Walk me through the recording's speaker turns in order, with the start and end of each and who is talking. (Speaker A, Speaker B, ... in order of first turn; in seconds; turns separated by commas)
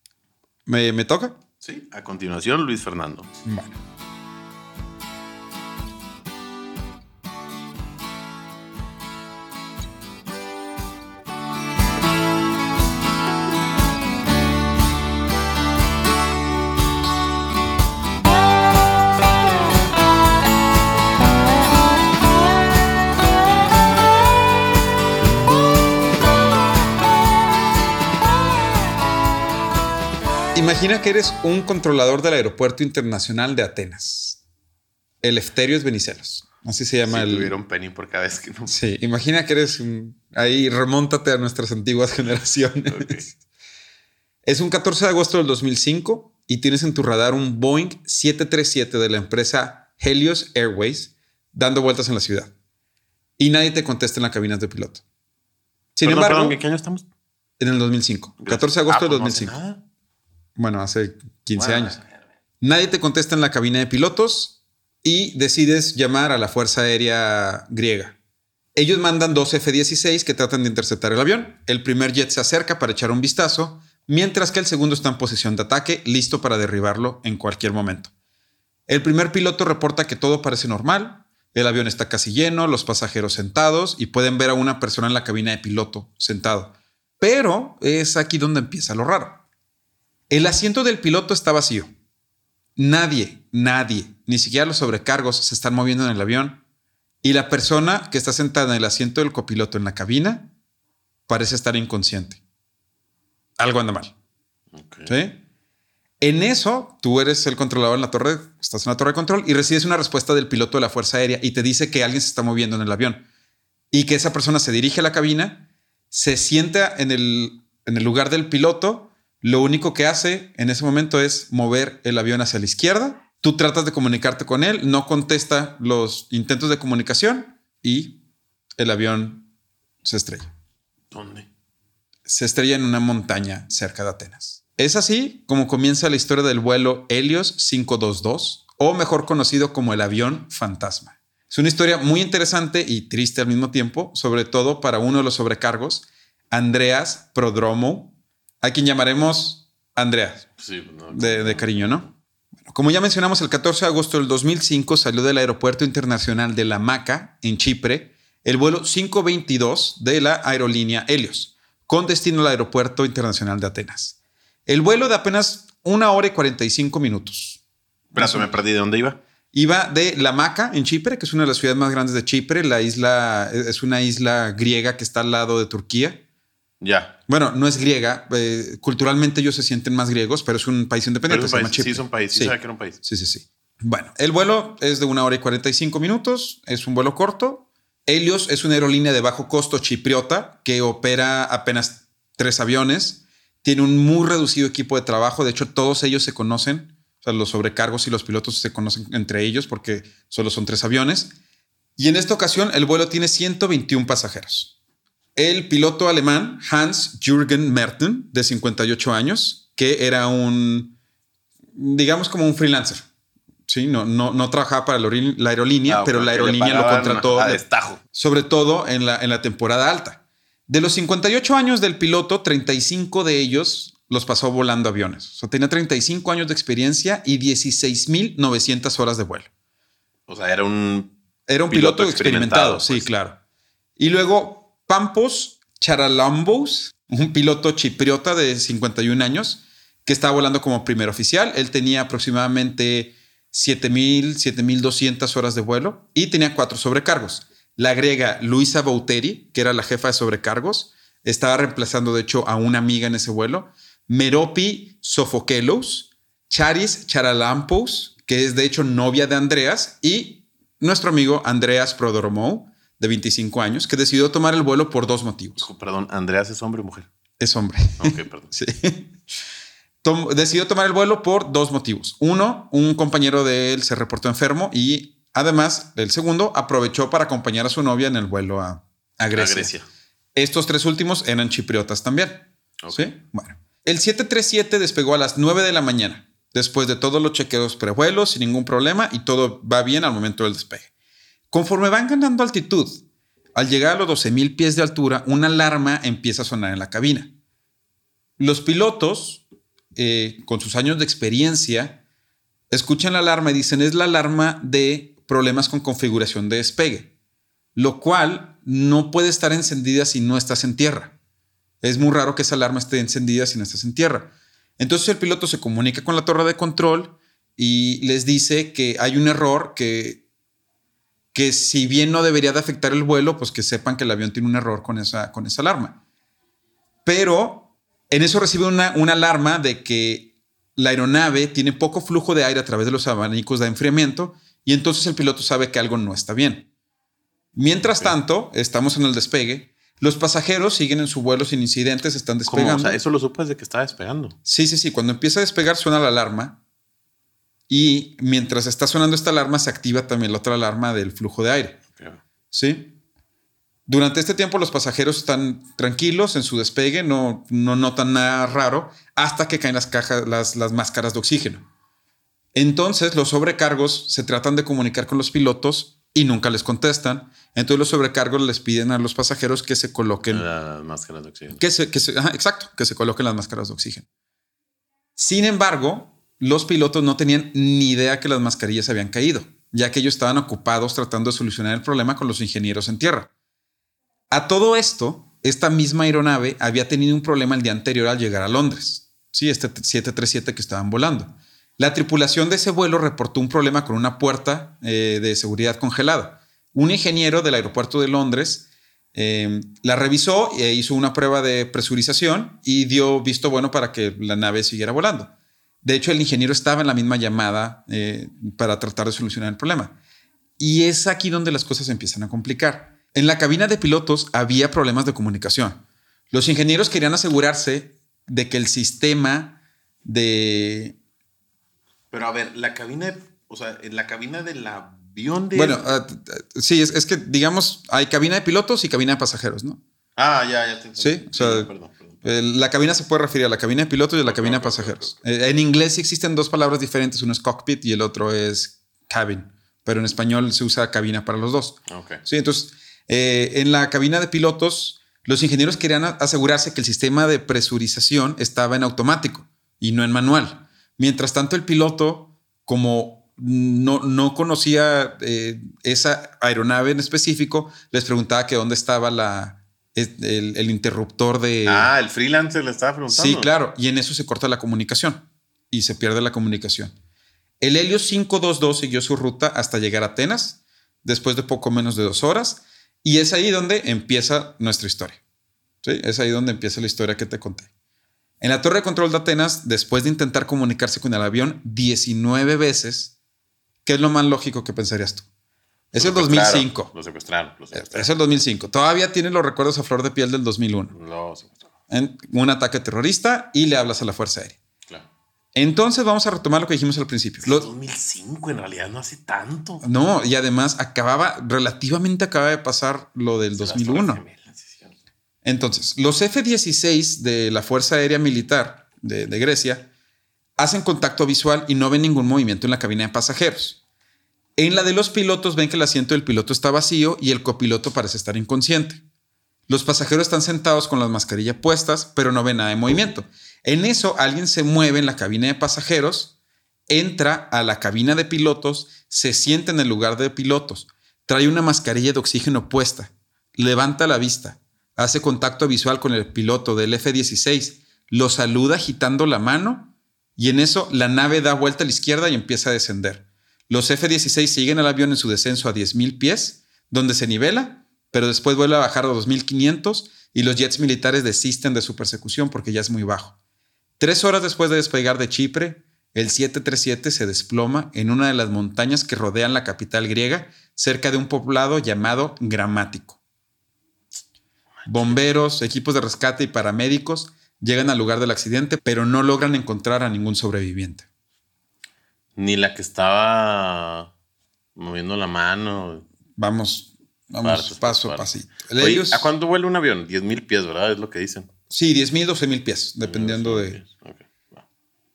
Speaker A: 0.7-1.4, Speaker B: 1.6-3.3, Speaker A: 3.5-3.8, Speaker A: 30.5-34.4, Speaker A: 35.2-37.5, Speaker B: 37.1-38.8, Speaker A: 38.7-43.4, Speaker B: 42.9-43.3, Speaker A: 44.5-52.5, Speaker A: 53.4-55.0, Speaker A: 56.0-56.6, Speaker B: 56.0-57.1, Speaker A: 57.6-59.5, Speaker B: 58.4-59.8, Speaker A: 60.6-62.0, Speaker B: 61.6-62.0, Speaker A: 62.6-68.2, Speaker A: 68.8-78.1, Speaker A: 78.9-89.4, Speaker A: 90.3-91.9, Speaker A: 92.8-96.6, Speaker A: 97.2-100.5, Speaker A: 101.3-102.4, Speaker A: 103.6-104.1, Speaker B: 104.7-105.2, Speaker A: 105.1-105.4, Speaker A: 106.2-113.2, Speaker A: 113.9-128.2, Speaker A: 128.8-129.5, Speaker A: 130.0-130.5, Speaker B: 131.1-131.5, Speaker A: 132.3-150.5, Speaker B: 150.6-152.1, Speaker A: 151.1-152.1, Speaker A: 152.7-167.6, Speaker B: 168.1-169.2, Speaker A: 168.2-168.5, Speaker A: 169.5-176.2, Speaker B: 176.8-177.2, Speaker A: 177.3-201.3, Speaker B: 181.3-183.0, Speaker A: 202.0-204.7, Speaker A: 205.4-211.0, Speaker A: 211.8-213.0, Speaker A: 213.7-217.6, Speaker B: 215.9-218.0, Speaker A: 218.1-229.5, Speaker B: 230.3-231.2, Speaker A: 231.5-233.4, Speaker B: 231.7-233.1, Speaker A: 234.0-265.6, Speaker B: 265.6-267.1, Speaker A: 267.4-269.1, Speaker B: 268.0-268.5, Speaker A: 270.0-279.7, Speaker B: 279.3-279.9, Speaker A: 280.4-290.9, Speaker B: 282.8-283.2, Speaker A: 291.5-293.0, Speaker A: 293.6-297.3, Speaker A: 298.4-299.4, Speaker A: 299.9-302.0, Speaker A: 302.7-307.1, Speaker A: 307.8-311.1, Speaker A: 311.8-320.2, Speaker A: 321.3-326.0, Speaker A: 327.1-336.7, Speaker A: 337.6-343.0, Speaker B: 337.8-338.2, Speaker B: 342.5-344.4, Speaker A: 344.5-346.6, Speaker A: 347.7-351.8, Speaker B: 352.0-352.2, Speaker A: 352.5-353.0, Speaker A: 353.9-361.6, Speaker A: 362.5-370.5, Speaker B: 370.3-371.6, Speaker A: 371.6-374.1, Speaker A: 375.2-383.3, Speaker A: 384.3-409.9, Speaker A: 410.6-421.0, Speaker B: 422.1-425.9, Speaker A: 425.5-429.8, Speaker B: 430.2-432.2, Speaker A: 431.0-431.7, Speaker A: 432.2-461.9, Speaker B: 434.2-435.2, Speaker B: 441.9-442.2, Speaker B: 461.6-463.5, Speaker A: 463.1-466.9, Speaker A: 467.6-475.2, Speaker A: 475.8-477.7, Speaker A: 478.4-483.1, Speaker A: 483.9-485.3, Speaker A: 485.9-486.9, Speaker B: 485.9-488.1, Speaker A: 487.7-490.9, Speaker B: 490.9-491.7, Speaker A: 491.9-494.6, Speaker A: 495.6-497.7, Speaker B: 497.4-499.9, Speaker A: 499.8-504.2, Speaker B: 503.6-504.9, Speaker A: 505.4-509.9, Speaker A: 510.6-513.8, Speaker A: 514.6-519.0, Speaker A: 519.7-526.3, Speaker A: 526.9-553.4, Speaker A: 554.0-563.2, Speaker B: 564.8-565.2, Speaker A: 564.9-571.0, Speaker B: 572.4-574.1, Speaker B: 574.8-576.1, Speaker A: 576.4-579.3, Speaker B: 577.4-581.5, Speaker A: 581.7-583.8, Speaker B: 583.0-584.6